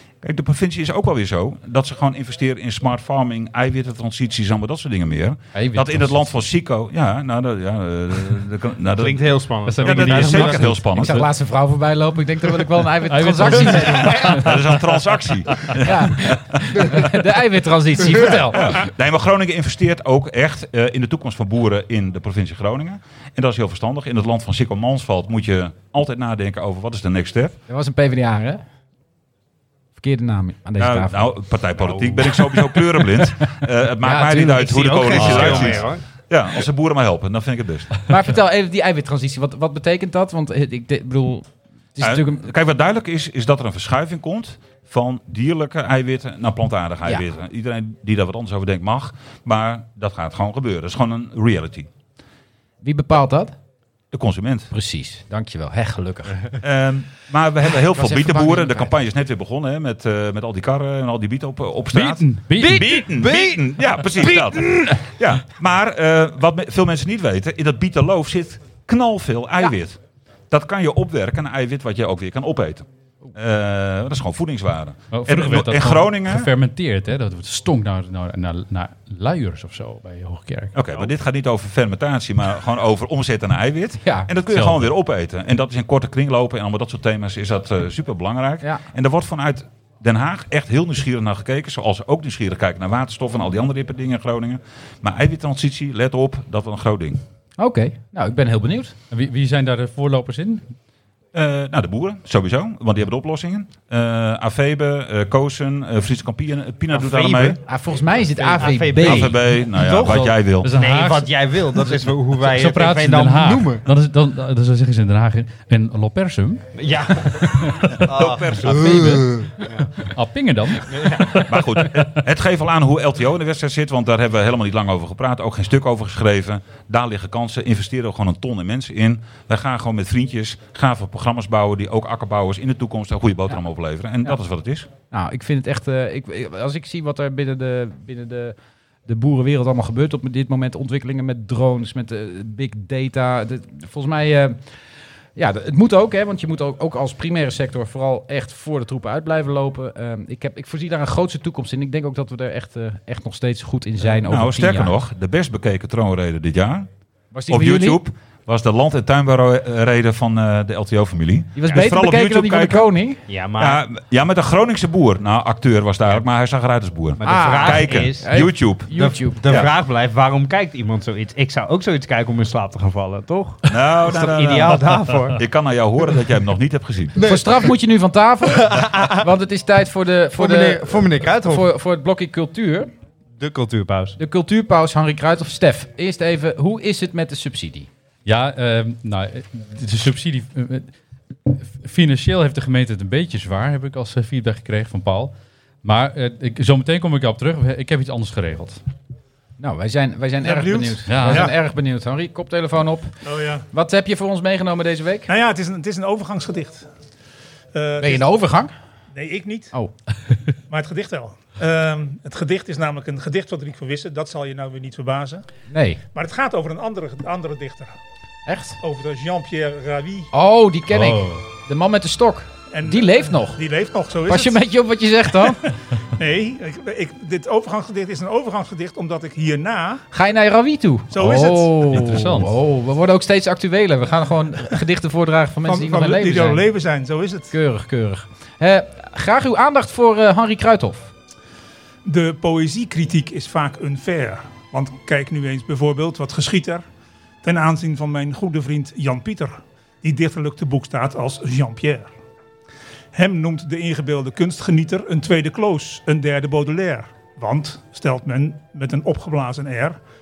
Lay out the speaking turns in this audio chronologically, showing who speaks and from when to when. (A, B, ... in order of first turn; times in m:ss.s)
0:00.2-0:11.2 A
0:05.5-0:06.2 B
0:09.0-0:10.8 C
0:09.6-0:11.2 B
0:10.9-0:14.4 D
0:13.0-0:14.8 B
0:14.2-0:17.1 A
0:15.8-0:18.8 D
0:18.2-0:27.6 A
0:27.7-0:28.6 D
0:30.0-0:31.3 D
0:30.8-0:38.0 A
0:31.8-0:32.3 C
0:34.0-0:35.8 D
0:34.6-0:36.0 C
0:38.1-0:42.4 D
0:42.0-0:51.9 A
0:52.8-0:53.5 D
0:54.1-0:54.7 A
0:54.7-0:56.4 D
0:56.6-1:10.0 A
0:57.9-0:58.9 D
1:01.9-1:02.9 B
1:02.6-1:03.0 D
1:03.2-1:03.6 C
1:04.2-1:05.0 D
1:10.5-1:16.5 A
1:15.1-1:20.7 B
1:20.7-1:37.2 A
1:24.0-1:24.3 D
1:24.5-1:24.8 B
1:37.6-1:38.9 D
1:39.1-1:40.6 B
1:41.3-1:47.6 A
1:46.9-1:47.6 C
1:47.6-1:49.3 D
1:48.4-1:53.8 C
1:49.0-1:50.7 A
1:50.0-1:56.7 B
1:56.8-2:00.0 C
1:57.2-1:58.0 B
1:57.9-1:59.3 A
1:58.8-1:59.2 B
2:00.0-2:02.0 B
2:00.8-2:01.4 C
2:01.5-2:14.9 A
2:15.1-2:18.5 D
2:19.0-2:24.6 D
2:25.4-2:34.9 D
2:34.2-2:36.9 A
2:37.3-2:38.0 D
2:37.5-2:42.9 A
2:41.5-2:43.2 D
2:43.3-2:43.8 C
2:43.6-2:48.9 A
2:47.2-2:55.4 C
2:47.2-2:49.4 D
2:49.4-2:49.7 A
2:53.7-2:57.2 A
2:57.2-2:57.7 C
2:57.2-3:02.9 D
2:58.5-2:59.2 C
3:00.4-3:01.7 C
3:03.4-3:04.2 C
3:04.2-3:07.9 D
3:08.2-3:10.9 B
3:11.4-3:18.8 B
3:19.6-3:23.1 D
3:20.4-3:21.5 E
3:21.1-3:21.5 B
3:23.2-3:23.6 E
3:23.7-3:25.3 D
3:25.3-3:26.9 E
3:27.7-3:28.3 E
3:28.0-3:28.7 D
3:29.1-3:29.7 E
3:30.7-3:35.4 E
3:35.7-3:36.0 D
3:36.1-3:37.9 E
3:38.4-3:38.8 D
3:38.8-3:40.3 E
3:40.3-3:43.6 D
3:40.9-3:41.4 B
3:42.7-3:44.6 E
3:44.3-3:45.6 D
3:46.1-3:50.0 E
3:50.1-3:56.6 D
3:51.1-3:51.9 E
3:51.9-3:52.5 B
3:55.6-3:57.5 E
3:57.5-4:01.1 D
4:02.0-4:06.8 E
4:07.4-4:12.1 E
4:13.1-4:20.0 E